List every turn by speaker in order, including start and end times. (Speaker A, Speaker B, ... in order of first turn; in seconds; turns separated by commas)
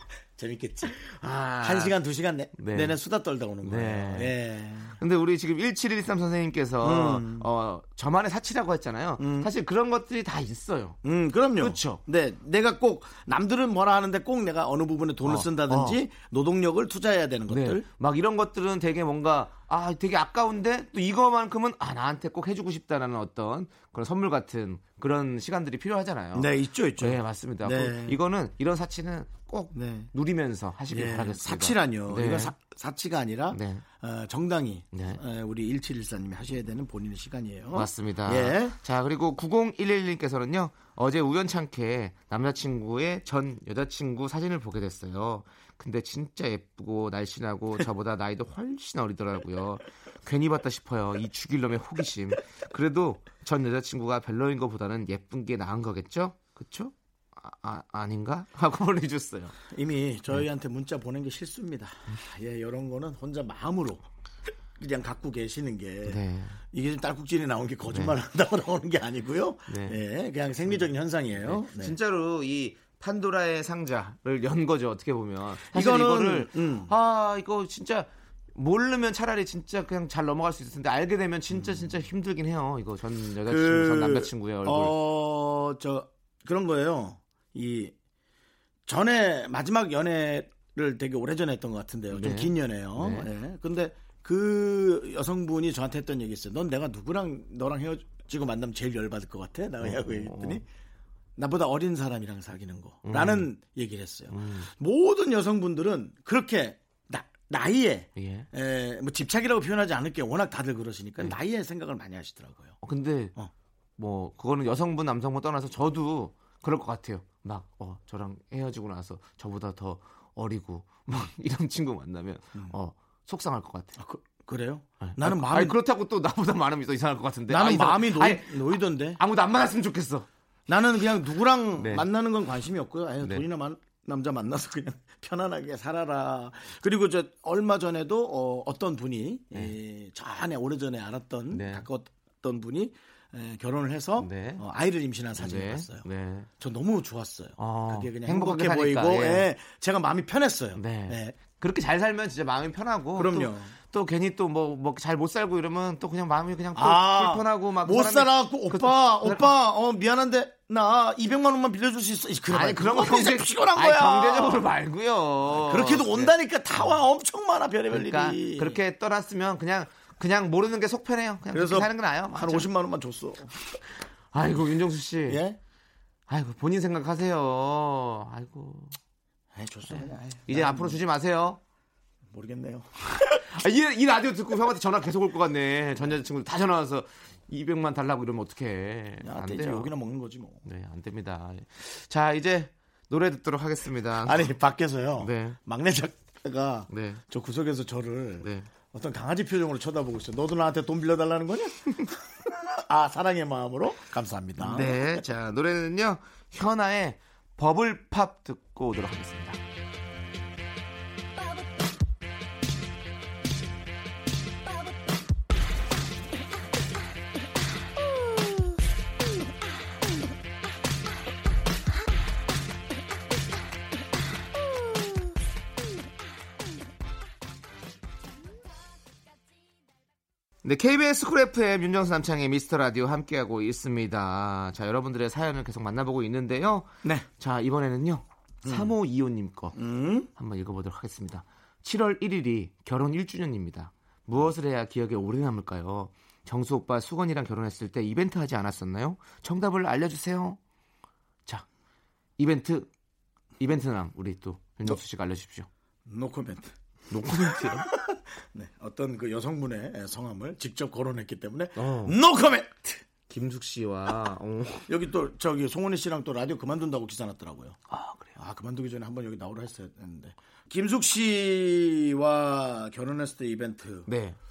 Speaker A: 0.4-5.0, Speaker B: 1.1-1.9, Speaker B: 2.6-3.0, Speaker B: 3.6-4.4, Speaker B: 5.0-11.0, Speaker A: 6.8-7.5, Speaker A: 9.2-9.5, Speaker A: 11.0-17.9, Speaker B: 11.6-12.0, Speaker B: 15.2-16.0, Speaker B: 17.5-32.5, Speaker A: 26.4-28.2, Speaker A: 29.7-30.1, Speaker A: 30.9-38.8, Speaker B: 33.5-33.8, Speaker B: 34.9-35.2, Speaker B: 37.7-59.6, Speaker A: 59.7-64.0, Speaker A: 64.8-66.2, Speaker B: 66.0-66.6, Speaker A: 66.7-72.0, Speaker B: 69.7-70.0, Speaker B: 71.4-85.0, Speaker A: 75.7-76.9, Speaker A: 81.5-82.0, Speaker A: 83.5-87.9, Speaker A: 88.9-100.7, Speaker B: 92.1-93.3, Speaker B: 99.8-100.6, Speaker A: 101.4-112.8, Speaker B: 103.1-103.5, Speaker B: 104.3-104.7, Speaker B: 108.2-108.5, Speaker B: 112.8-113.3, Speaker B: 114.0-123.9, Speaker A: 124.0-125.8, Speaker B: 125.0-130.3, Speaker A: 127.5-129.2, Speaker A: 130.7-146.1, Speaker B: 131.8-132.1, Speaker B: 141.5-141.9, Speaker B: 144.2-144.6, Speaker B: 145.4-146.5, Speaker A: 146.6-151.4, Speaker B: 147.6-149.5, Speaker B: 150.8-159.5, Speaker A: 153.2-153.8, Speaker A: 156.8-164.7, Speaker B: 162.5-166.3, Speaker A: 165.5-168.8, Speaker B: 167.9-172.7, Speaker A: 171.5-173.6, Speaker B: 174.3-175.4, Speaker A: 175.3-175.6, Speaker B: 176.3-179.0, Speaker A: 179.5-181.0, Speaker B: 179.9-181.6, Speaker A: 182.3-183.0, Speaker B: 183.2-189.9, Speaker A: 189.2-190.7, Speaker B: 190.7-194.5, Speaker A: 194.2-205.3, Speaker B: 195.2-195.6, Speaker B: 196.9-197.2, Speaker B: 198.4-198.7, Speaker B: 204.6-209.6, Speaker B: 230.6-239.8, Speaker A: 238.6-238.9, Speaker A: 239.8-240.3, Speaker B: 240.3-250.6, Speaker B: 252.4-252.9, Speaker B: 253.6-255.7, Speaker A: 256.1-256.7, Speaker B: 257.1-257.9, Speaker A: 257.4-263.0, Speaker B: 261.8-262.2, Speaker B: 263.3-264.9, Speaker A: 264.9-267.8, Speaker B: 267.9-268.4, Speaker A: 268.4-274.1, Speaker B: 274.1-274.4